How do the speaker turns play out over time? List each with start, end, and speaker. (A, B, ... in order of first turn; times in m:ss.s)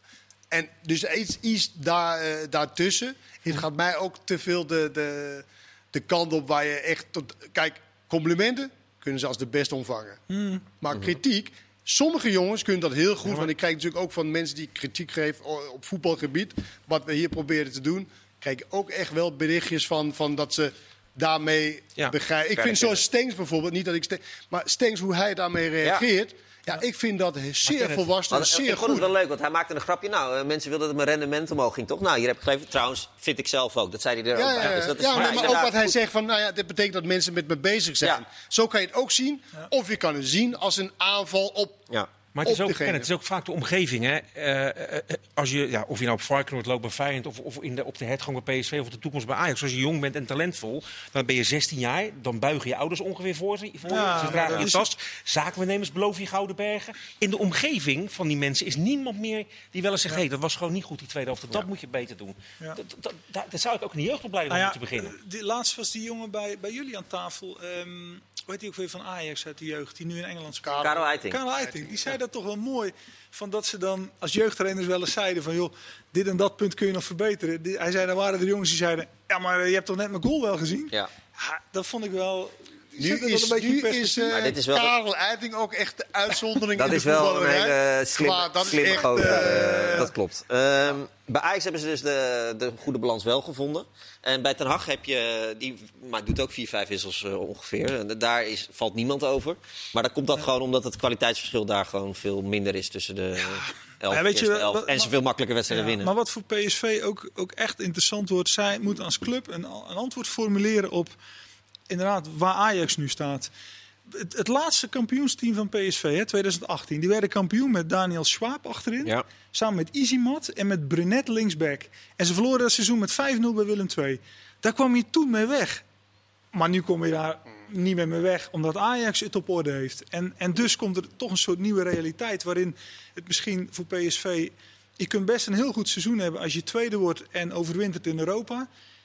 0:00.5-0:10.2 A
0:10.3-0:10.6 B
0:10.8-0:29.1 A
0:22.6-0:23.0 C
0:27.6-0:28.0 D
0:28.3-0:35.9 C
0:34.3-0:41.9 A
0:34.6-0:35.7 D
0:42.3-1:05.1 D
0:42.4-0:43.1 A
0:53.8-0:54.9 B
1:04.5-1:24.3 B
1:10.6-1:11.0 A
1:10.8-1:11.4 C
1:23.0-1:30.1 A
1:24.3-1:24.9 C
1:26.7-1:46.1 C
1:43.4-1:45.1 B
1:45.7-1:51.1 B
1:51.9-1:53.5 B
1:54.1-2:05.8 B
2:06.5-2:18.7 B